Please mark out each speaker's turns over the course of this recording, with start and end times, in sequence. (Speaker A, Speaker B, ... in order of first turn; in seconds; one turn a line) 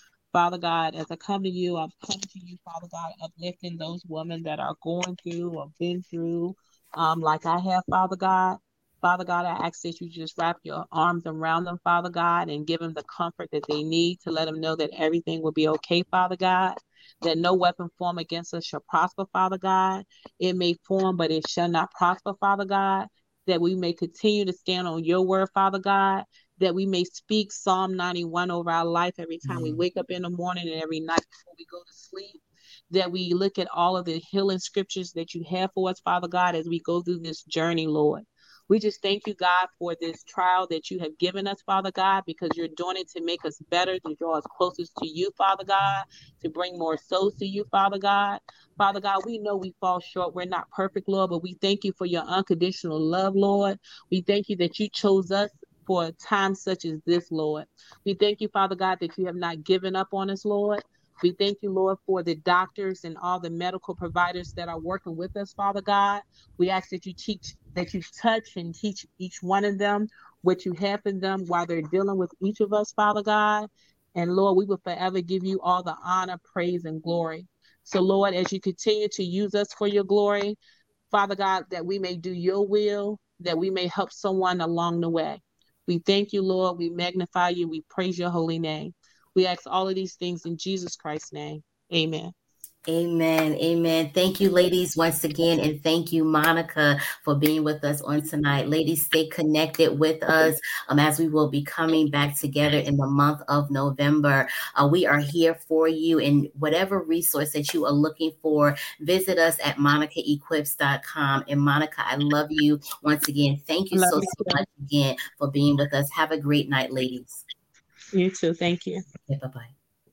Speaker A: 0.3-80.6
Speaker B: 29.4-29.8
Speaker A: 81.1-92.3
Speaker B: 92.9-117.4
Speaker A: 113.9-114.6
Speaker A: 118.1-119.0
Speaker B: 119.3-119.7